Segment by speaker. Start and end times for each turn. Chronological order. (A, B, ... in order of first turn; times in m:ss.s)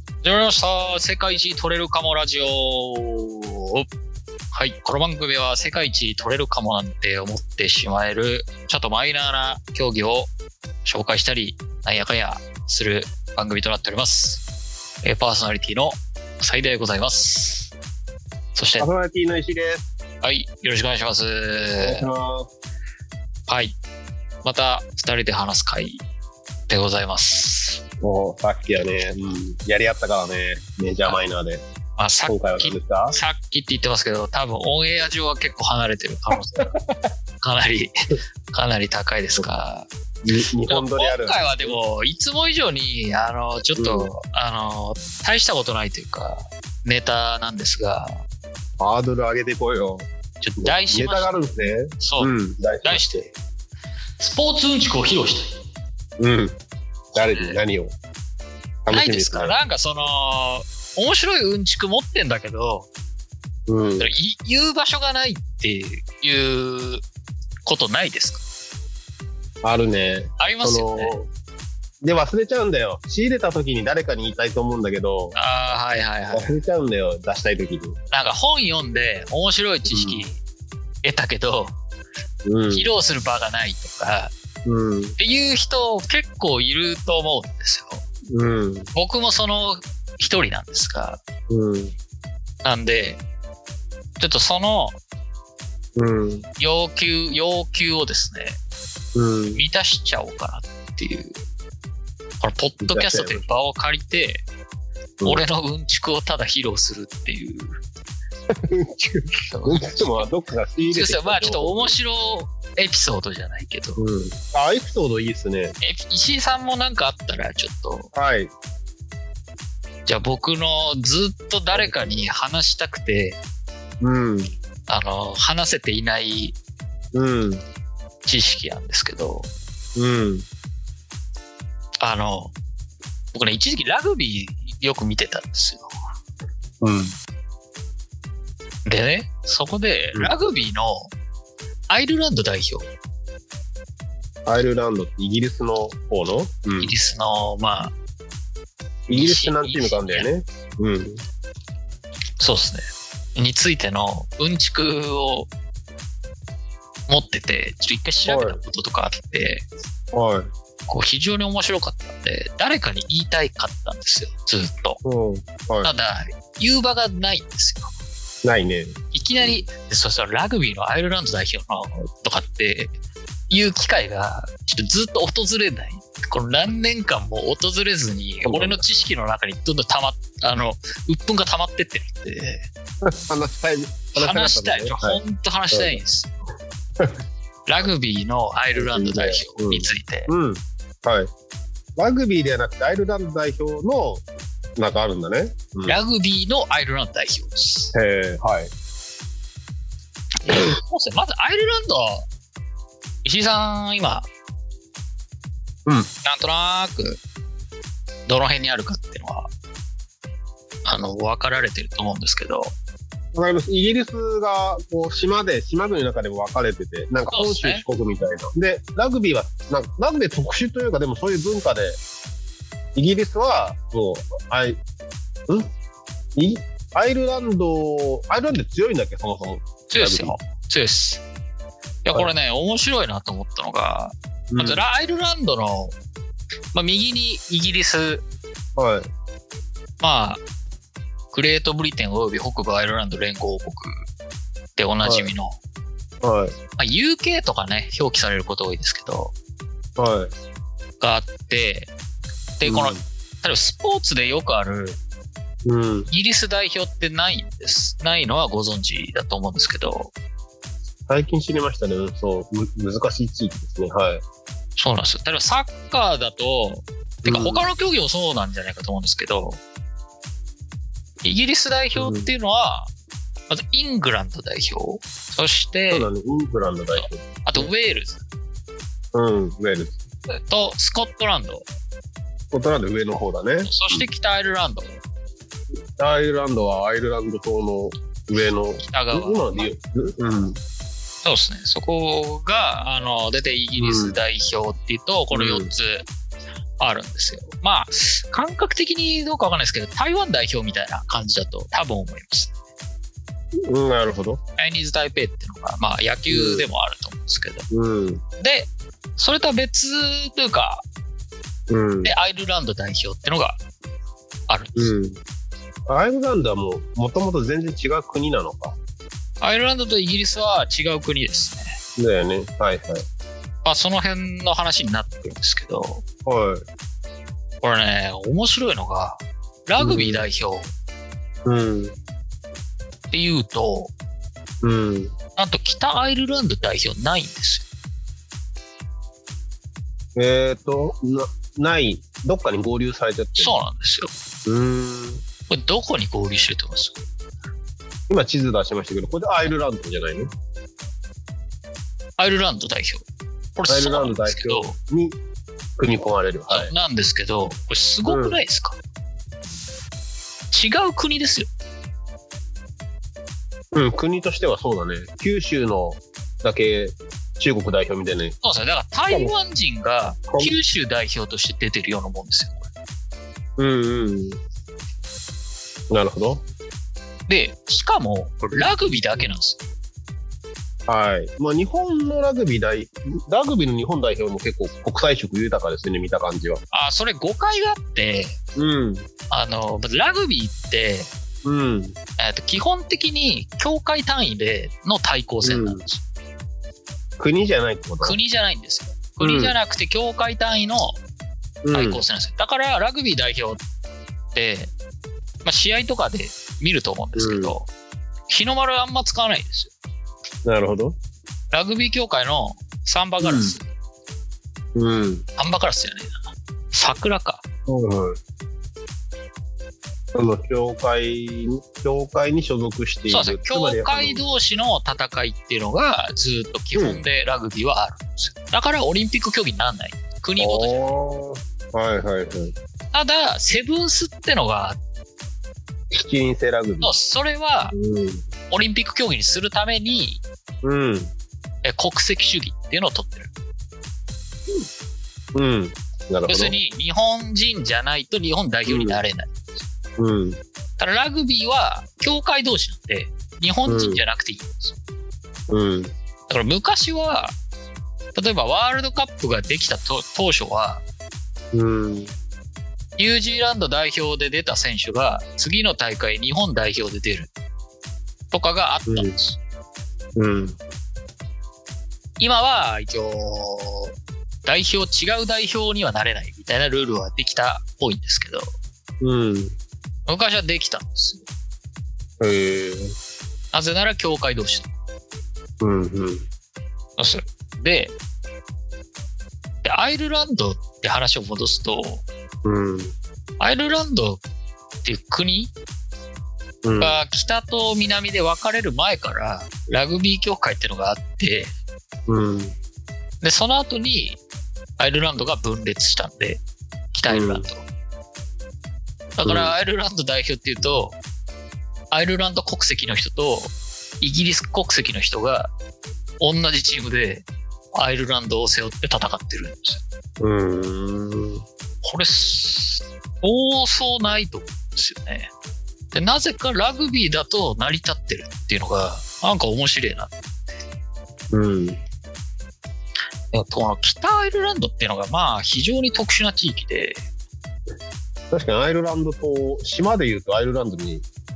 0:00.2-0:03.9 A
0:04.5-0:10.3 A
0:10.8-0:14.4 A
0:15.0-0:17.7 A
0:18.6-0:18.9 A
0:18.8-0:19.9 B
0:20.2-0:22.1 A
0:21.8-0:22.5 B
0:23.5-0:23.8 A
0:24.4-0:26.0 A
0:26.7-0:27.8 A
0:28.0-0:31.6 B
0:32.0-0:36.8 A
0:32.3-0:33.2 B
0:37.4-0:37.9 A
0:38.5-0:39.9 A
0:40.2-0:41.8 B
0:40.7-0:48.2 A
0:43.8-0:44.1 B
0:48.8-0:50.1 B
0:50.4-0:51.4 A
0:50.6-0:53.3 B
0:52.0-0:52.3 A
0:52.8-0:53.3 A
0:54.2-0:55.6 A
0:56.2-0:56.6 B
0:57.1-0:57.6 A
0:57.2-0:58.0 B
0:58.9-0:59.6 B
0:58.9-1:02.9 A
1:03.7-1:04.1 B
1:04.0-1:07.0 A
1:07.7-1:08.4 A
1:09.6-1:11.3 B
1:10.4-1:11.2 A
1:12.0-1:15.4 B
1:15.4-1:16.6 A
1:16.3-1:18.0 B
1:18.1-1:20.4 A
1:19.9-1:20.3 B
1:21.0-1:21.8 A
1:22.5-1:22.9 B
1:22.7-1:24.3 A
1:24.6-1:25.2 B
1:25.2-1:28.0 A
1:28.3-1:28.9 B
1:28.9-1:31.2 A
1:31.5-1:32.0 B
1:32.6-1:33.2 A
1:34.2-1:35.0 A
1:36.0-1:36.5 B
1:36.6-1:38.6 A
1:39.2-1:39.6 B
1:39.6-1:41.4 A
1:42.4-1:44.4 A
1:42.8-1:43.5 B
1:45.2-1:47.7 A
1:48.5-1:52.0 B
1:49.5-1:54.0 A
1:54.0-1:55.8 B
1:55.8-1:58.1 A
1:58.1-1:58.5 B
2:00.1-2:03.4 A
2:01.7-2:02.3 B
2:04.0-2:04.5 B
2:04.9-2:06.6 A
2:07.1-2:07.6 B
2:08.2-2:09.5 A
2:10.0-2:10.5 B
2:12.0-2:12.6 A
2:13.3-2:15.9 A
2:16.8-2:17.2 B
2:18.9-2:21.1 A
2:21.9-2:22.9 A
2:24.5-2:26.9 B
2:26.8-2:27.9 A
2:29.1-2:31.2 B
2:29.1-2:30.3 A
2:32.4-2:35.5 A
2:37.1-2:39.6 A
2:38.3-2:38.6 B
2:40.1-2:40.5 B
2:40.9-2:45.0 A
2:45.0-2:45.9 B
2:45.8-2:47.9 A
2:48.4-2:49.6 B
2:49.1-2:52.9 A
2:53.5-3:02.6 A
2:58.4-2:58.8 B
3:03.0-3:05.2 B
3:04.2-3:06.3 A
3:05.7-3:06.0 B
3:07.7-3:10.3 A
3:08.8-3:11.3 B
3:12.0-3:14.2 B
3:14.8-3:16.0 B
3:15.9-3:17.9 A
3:17.9-3:18.7 B
3:20.4-3:22.3 A
3:23.2-3:24.3 A
3:26.2-3:27.2 A
3:28.3-3:29.5 A
3:30.9-3:32.7 A
3:33.3-3:42.0 B
3:37.3-3:37.8 A
3:43.0-3:44.8 B
3:46.4-3:50.4 B
3:49.9-3:51.2 A
3:52.0-3:55.9 A
3:54.5-3:54.8 B
3:56.7-3:58.2 A
3:58.8-3:59.1 B
4:00.0-4:00.4 A
4:01.3-4:04.0 A
4:04.8-4:05.6 A
4:05.0-4:05.3 B
4:06.2-4:06.6 B
4:06.8-4:09.4 A
4:10.0-4:10.3 B
4:11.0-4:11.9 A
4:12.6-4:15.0 A
4:12.6-4:13.0 B
4:15.6-4:16.1 B
4:16.1-4:20.1 A
4:21.1-4:24.2 B
4:24.8-4:29.6 A
4:27.2-4:27.7 B
4:31.2-4:32.9 A
4:31.9-4:32.3 B
4:33.5-4:36.1 A
4:35.9-4:37.7 B
4:37.0-4:38.2 A
4:39.1-4:40.0 B
4:40.3-4:41.6 A
4:42.5-4:44.1 B
4:43.6-4:45.0 A
4:46.0-4:50.6 B
4:48.8-4:49.7 A
4:51.2-4:56.1 A
4:53.8-4:54.2 B
4:55.3-4:55.7 B
4:56.8-5:02.5 A
5:03.7-5:04.4 B
5:04.6-5:07.7 A
5:06.3-5:06.7 B
5:07.7-5:08.2 B
5:08.4-5:10.8 A
5:11.7-5:12.1 B
5:12.0-5:13.6 A
5:14.5-5:14.9 A
5:14.8-5:15.2 B
5:15.9-5:18.8 B
5:19.4-5:21.8 A
5:22.0-5:23.0 B
5:23.6-5:26.0 A
5:26.3-5:26.6 B
5:27.6-5:30.7 A
5:29.8-5:30.3 B
5:31.4-5:32.0 B
5:33.1-5:33.9 A
5:34.6-5:35.2 B
5:35.4-5:37.7 A
5:40.2-5:43.6 B
5:43.4-5:44.1 A
5:44.5-5:45.2 B
5:45.5-5:47.0 A
5:48.1-5:50.3 B
5:52.2-5:53.0 A
5:53.6-5:54.8 A
5:53.7-5:55.2 B
5:55.8-5:56.7 B
5:56.5-5:58.8 A
5:58.1-5:58.4 B
6:00.5-6:01.5 A
6:03.7-6:08.4 B
6:08.4-6:12.7 A
6:09.1-6:09.3 B
6:13.6-6:14.4 B
6:15.9-6:16.4 B
6:17.3-6:19.6 A
6:18.6-6:19.3 B
6:20.9-6:26.6 B
6:26.7-6:28.4 A
6:28.6-6:29.1 B
6:29.3-6:31.1 A
6:31.4-6:32.0 B
6:32.2-6:36.0 A
6:35.4-6:35.8 B
6:37.2-6:38.2 B
6:38.0-6:41.0 A
6:39.2-6:39.6 B
6:41.6-6:42.0 B
6:41.7-6:43.6 A
6:44.3-6:44.7 A
6:45.4-6:47.7 A
6:47.2-6:47.6 B
6:48.3-6:49.7 A
6:50.4-6:51.0 B
6:51.5-6:53.7 A
6:53.2-6:53.6 B
6:54.8-6:55.3 B
6:55.4-6:56.2 A
6:56.7-6:57.4 A
6:57.7-6:58.2 B
7:00.1-7:04.2 B
7:03.1-7:10.8 A
7:06.8-7:07.0 B
7:10.4-7:12.6 B
7:12.9-7:14.8 A
7:15.9-7:17.0 B
7:16.8-7:17.8 A
7:17.7-7:18.3 B
7:18.5-7:20.2 A
7:20.6-7:21.1 B
7:21.6-7:23.3 A
7:25.3-7:26.6 B
7:26.3-7:29.6 A
7:28.7-7:29.0 B
7:30.0-7:30.4 B
7:30.8-7:34.8 A
7:33.7-7:34.0 B
7:35.5-7:35.9 B
7:36.3-7:37.4 A
7:38.2-7:40.8 A
7:41.5-7:42.1 B
7:43.0-7:47.3 A
7:48.3-7:49.4 A
7:48.9-7:49.2 B
7:50.2-7:50.6 B
7:52.2-7:53.9 A
7:54.4-7:58.5 A
7:59.0-7:59.6 B
8:00.1-8:01.2 A
8:02.2-8:03.0 B
8:03.5-8:04.7 A
8:05.6-8:06.3 B
8:07.0-8:08.0 A
8:09.6-8:12.0 A
8:12.4-8:13.0 B
8:13.4-8:14.2 A
8:14.8-8:15.5 A
8:16.6-8:17.0 B
8:16.8-8:21.5 A
8:22.1-8:22.6 B
8:23.2-8:24.2 A
8:24.8-8:26.4 A
8:26.9-8:27.7 A
8:27.1-8:27.5 B
8:29.2-8:31.0 A
8:29.2-8:29.6 B
8:31.9-8:35.5 A
8:36.2-8:39.8 A
8:40.2-8:41.4 B
8:41.8-8:45.3 A
8:45.9-8:50.3 A
8:51.3-8:51.8 B
8:53.3-8:57.0 A
8:58.3-9:01.0 B